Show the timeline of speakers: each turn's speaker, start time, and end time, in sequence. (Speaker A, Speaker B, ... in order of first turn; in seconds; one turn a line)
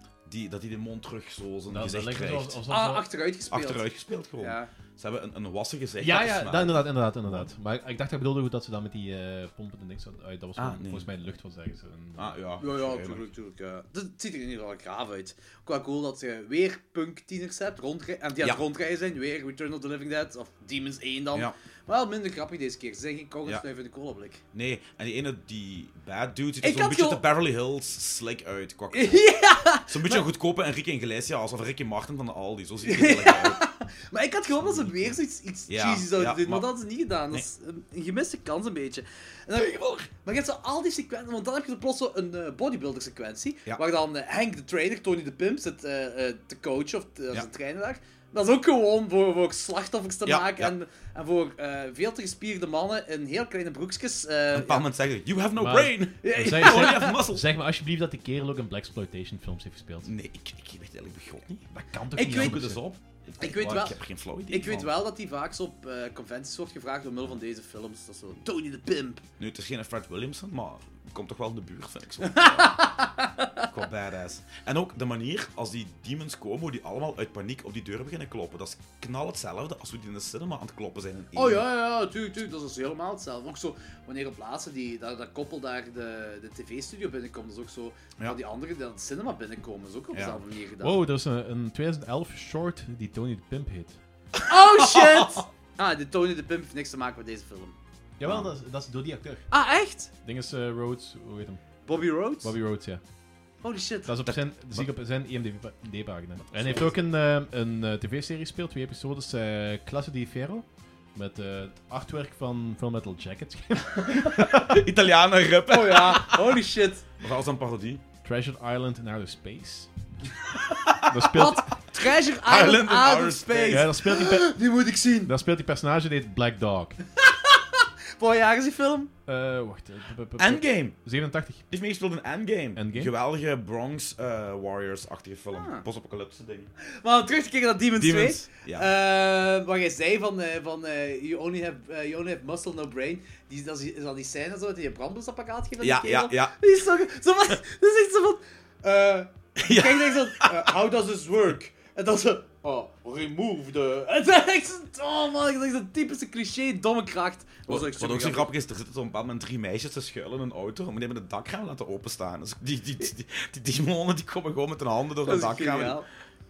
Speaker A: 0.3-2.6
Speaker B: 1.7-3.1
Speaker C: 2.7-3.9
Speaker A: 3.5-7.5
Speaker C: 4.4-4.7
Speaker B: 6.0-12.4
Speaker A: 10.6-11.1
Speaker A: 12.2-13.2
Speaker C: 12.6-24.4
Speaker A: 24.5-29.2
Speaker C: 26.6-27.2
Speaker C: 28.9-30.2
Speaker A: 29.9-33.6
Speaker C: 32.8-54.9
Speaker A: 35.7-36.7
Speaker A: 50.3-50.7
Speaker A: 54.5-57.5
Speaker B: 55.6-60.1
Speaker C: 56.2-57.1
Speaker A: 60.0-64.9
Speaker B: 61.7-62.8
Speaker C: 62.1-62.6
Speaker C: 63.4-69.2
Speaker A: 69.4-72.8
Speaker C: 72.2-73.7
Speaker A: 73.7-81.7
Speaker C: 81.3-91.0
Speaker A: 90.1-90.4
Speaker B: 90.8-94.0
Speaker C: 94.5-97.8
Speaker A: 94.8-95.4
Speaker B: 98.2-99.5
Speaker A: 98.2-98.5
Speaker C: 99.5-100.1
Speaker B: 100.2-101.6
Speaker C: 101.9-102.5
Speaker B: 102.4-103.0
Speaker C: 103.6-104.1
Speaker B: 104.1-114.9
Speaker A: 104.2-104.9
Speaker A: 106.5-106.9
Speaker A: 114.4-116.6
Speaker C: 115.7-117.0
Speaker A: 117.2-118.0
Speaker B: 118.2-119.9
Speaker A: 120.6-121.5
Speaker B: 121.0-121.8
Speaker C: 121.3-125.3
Speaker A: 122.2-123.9
Speaker B: 123.7-124.6
Speaker B: 125.3-127.0
Speaker C: 127.2-129.1
Speaker B: 129.3-131.7
Speaker A: 130.4-131.0
Speaker A: 131.7-136.7
Speaker B: 132.8-133.1
Speaker C: 135.5-135.8
Speaker C: 137.0-158.5
Speaker A: 138.0-138.9
Speaker A: 145.8-146.6
Speaker A: 149.6-150.7
Speaker A: 157.7-166.0
Speaker C: 165.2-166.1